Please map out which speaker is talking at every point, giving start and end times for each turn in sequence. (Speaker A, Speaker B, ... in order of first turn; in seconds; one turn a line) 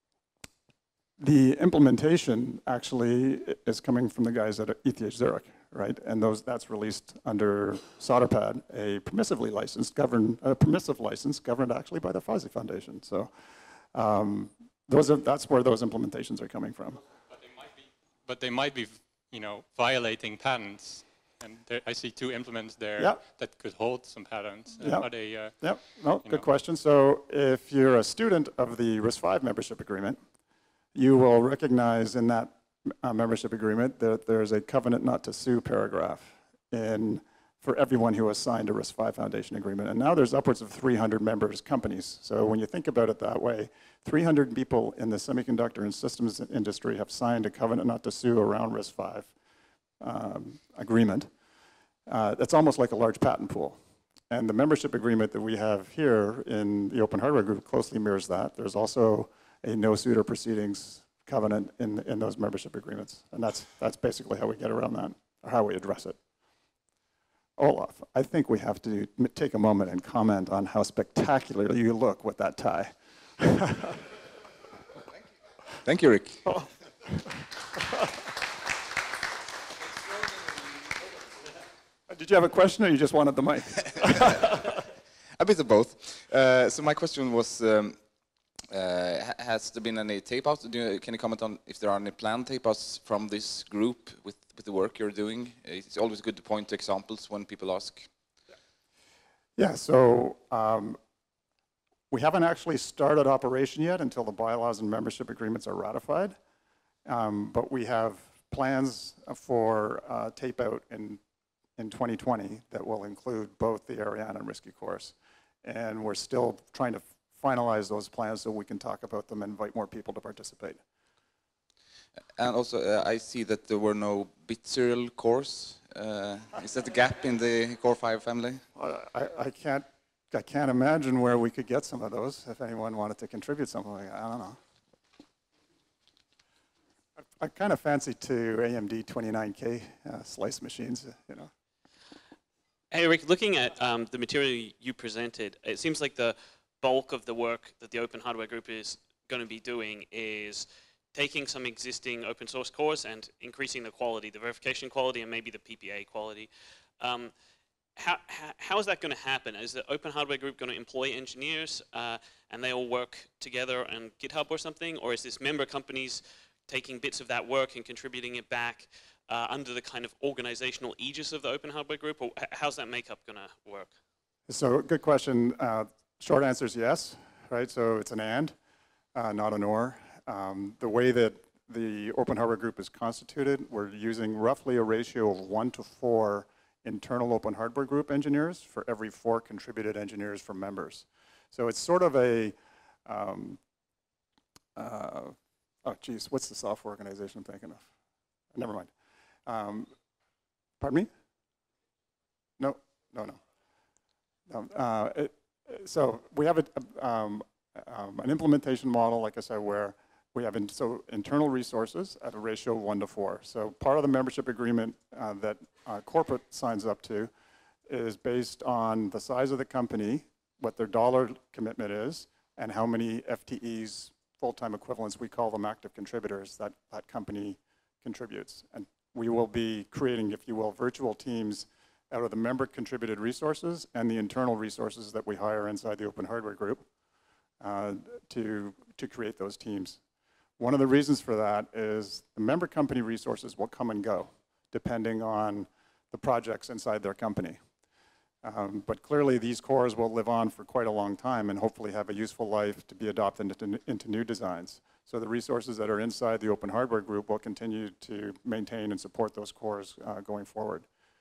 Speaker A: 1.2-13.3
Speaker A: 13.9-17.0
Speaker B: 17.3-25.6
Speaker A: 24.8-30.2
Speaker A: 30.9-49.3
Speaker A: 50.0-51.3
Speaker A: 52.1-53.8
Speaker A: 54.3-66.2
Speaker A: 67.6-74.0
Speaker C: 75.8-76.5
Speaker A: 82.1-84.6
Speaker C: 85.4-88.0
Speaker C: 88.7-98.1
Speaker A: 99.6-101.0
Speaker A: 102.1-106.4
Speaker A: 107.1-111.2
Speaker A: 111.8-120.8
Speaker C: 122.4-128.6
Speaker A: 128.8-134.6
Speaker A: 137.4-141.5
Speaker D: 142.9-157.3
Speaker D: 158.0-173.9
Speaker A: 174.5-178.6
Speaker A: 179.2-192.5
Speaker A: 193.1-193.6
Speaker A: 194.8-197.9
Speaker A: 198.5-198.9
Speaker A: 199.5-199.9
Speaker A: 200.8-201.1
Speaker A: 202.6-203.4
Speaker A: 204.5-217.3
Speaker A: 217.9-236.8
Speaker A: 237.6-240.0
Speaker A: 240.6-247.6
Speaker A: 248.4-260.9